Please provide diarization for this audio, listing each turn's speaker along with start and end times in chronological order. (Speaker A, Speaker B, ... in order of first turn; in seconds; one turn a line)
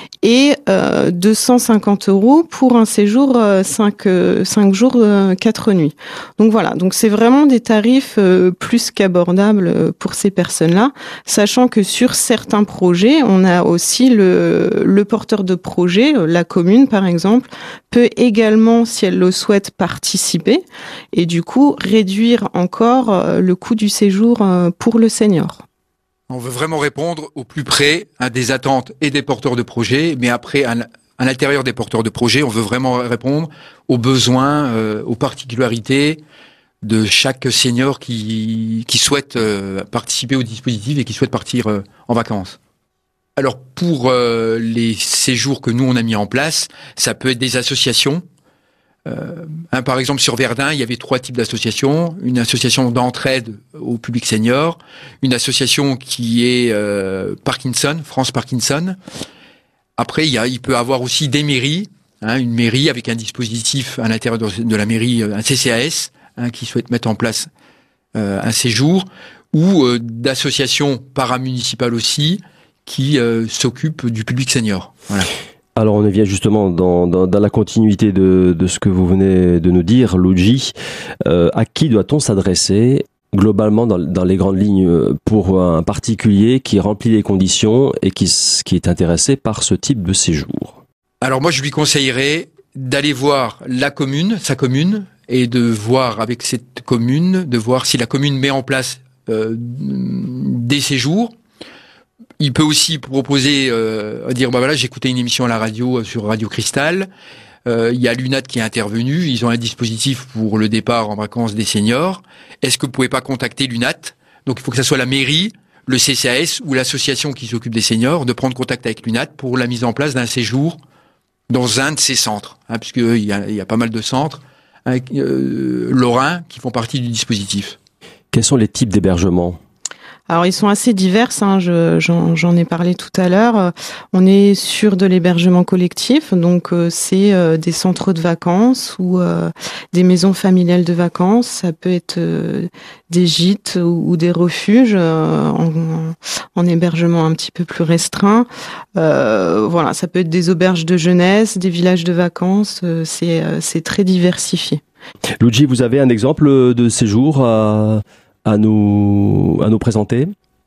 Speaker A: 0.2-25.6
Speaker B: 26.3-36.2
Speaker B: 36.8-42.6
Speaker B: 43.4-48.2
Speaker B: 49.0-59.0
Speaker B: 60.0-67.5
Speaker B: 68.1-75.3
Speaker C: 75.8-80.7
Speaker C: 81.2-90.8
Speaker B: 91.2-101.3
Speaker B: 102.4-107.1
Speaker B: 107.6-120.8
Speaker B: 121.5-127.8
Speaker C: 128.3-129.6
Speaker A: 130.3-154.8
Speaker C: 155.4-160.3